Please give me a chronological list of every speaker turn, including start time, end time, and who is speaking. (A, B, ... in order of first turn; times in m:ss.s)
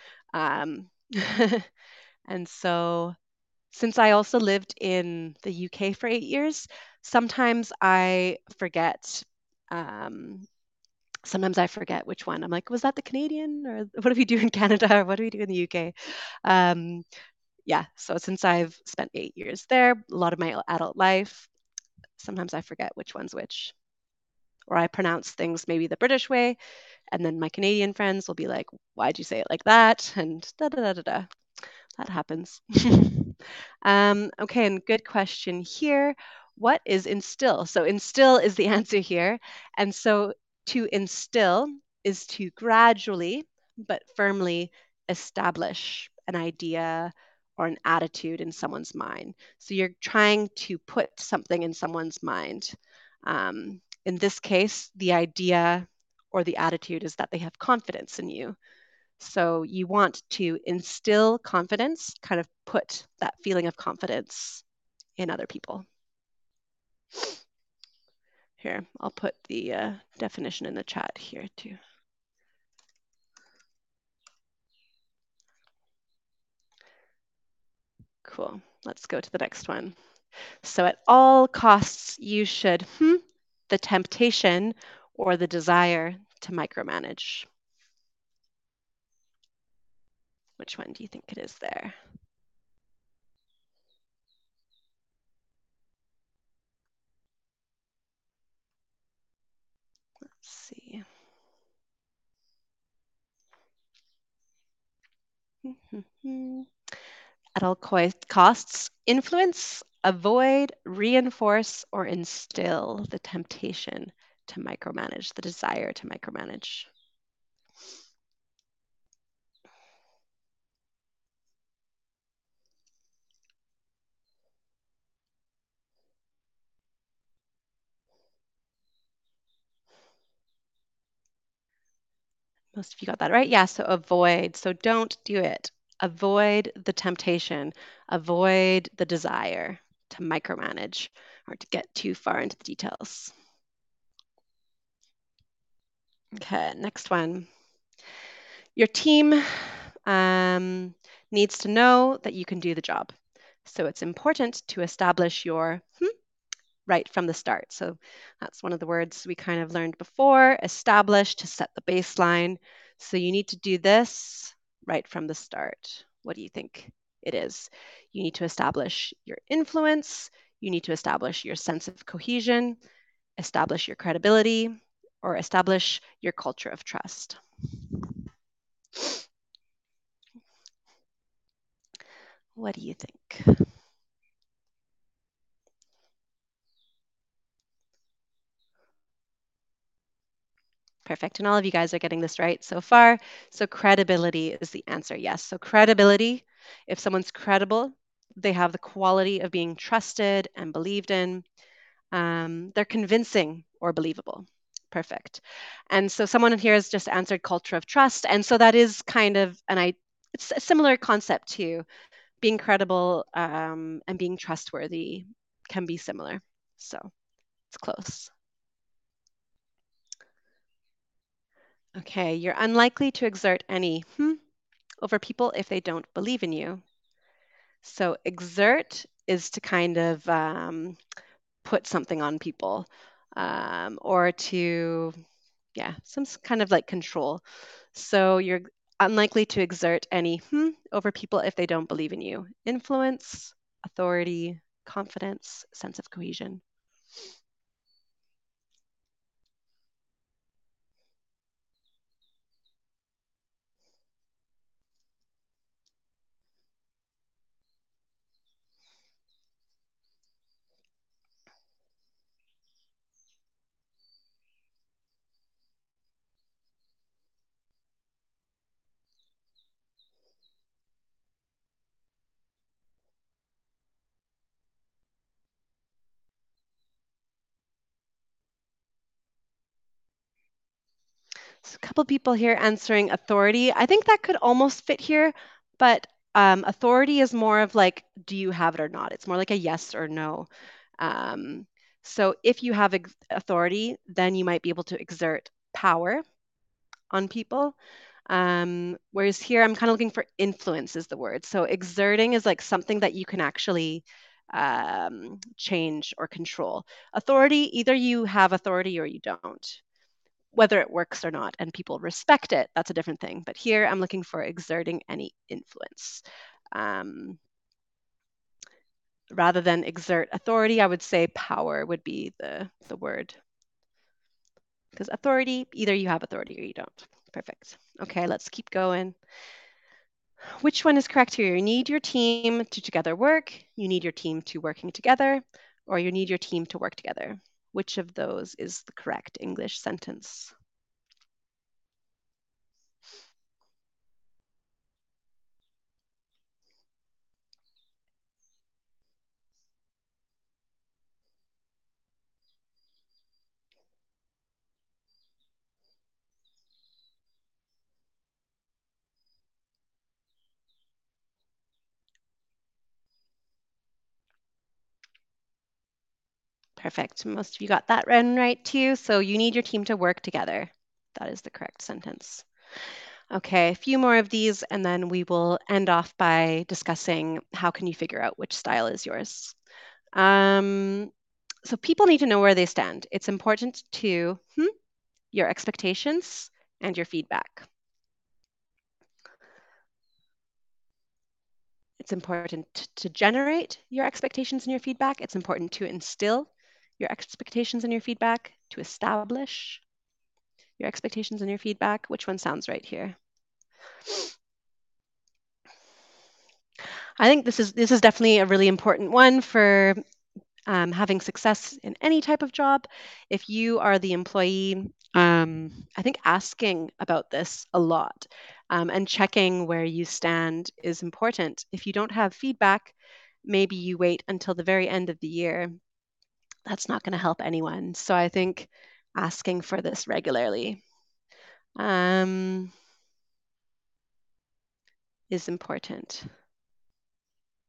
0:00.3-0:01.7 A
0:02.3-0:03.2 A
0:03.7-0:10.5 A
0:11.2-0:17.0 A
0:17.6-0:21.5 A
0:22.2-0:23.7 A
0:24.7-0:26.6 A
0:27.1-0:31.3 A
0:32.0-0:58.6 A
0:59.2-1:04.6 A
1:05.2-1:05.8 A
1:08.6-1:11.8 A
1:18.2-1:20.0 A
1:20.6-1:27.5 A
1:30.6-1:32.0 A
1:40.4-1:41.0 A
1:45.6-1:46.7 A
1:47.6-1:56.9 A
2:12.7-2:23.3 A
2:26.4-2:27.5 A
2:28.8-2:33.1 A
2:33.6-2:36.1 A
2:36.9-2:52.8 A
2:53.4-2:58.2 A
3:02.5-3:03.7 A
3:11.0-3:21.4 A
3:22.1-3:31.8 A
3:32.4-3:37.1 A
3:37.7-3:38.3 A
3:42.0-3:44.4 A
3:45.0-3:46.8 A
3:47.8-3:51.0 A
3:51.6-3:55.2 A
3:55.8-3:57.4 A
3:57.9-4:06.6 A
4:41.6-4:50.5 A
4:51.0-4:56.2 A
4:57.1-4:57.8 A
4:58.3-5:09.8 A
5:10.5-5:17.4 A
5:19.3-5:23.4 A
5:24.9-5:29.2 A
5:30.6-5:40.5 A
6:06.8-6:12.4 A
6:13.3-6:19.6 A
6:20.1-6:21.1 A
6:21.6-6:24.7 A
6:25.3-6:27.7 A
6:32.0-6:39.8 A
6:40.8-6:43.2 A
6:47.2-6:50.0 A
6:50.7-7:05.7 A
7:06.6-7:10.8 A
7:11.8-7:12.7 A
7:15.3-7:16.3 A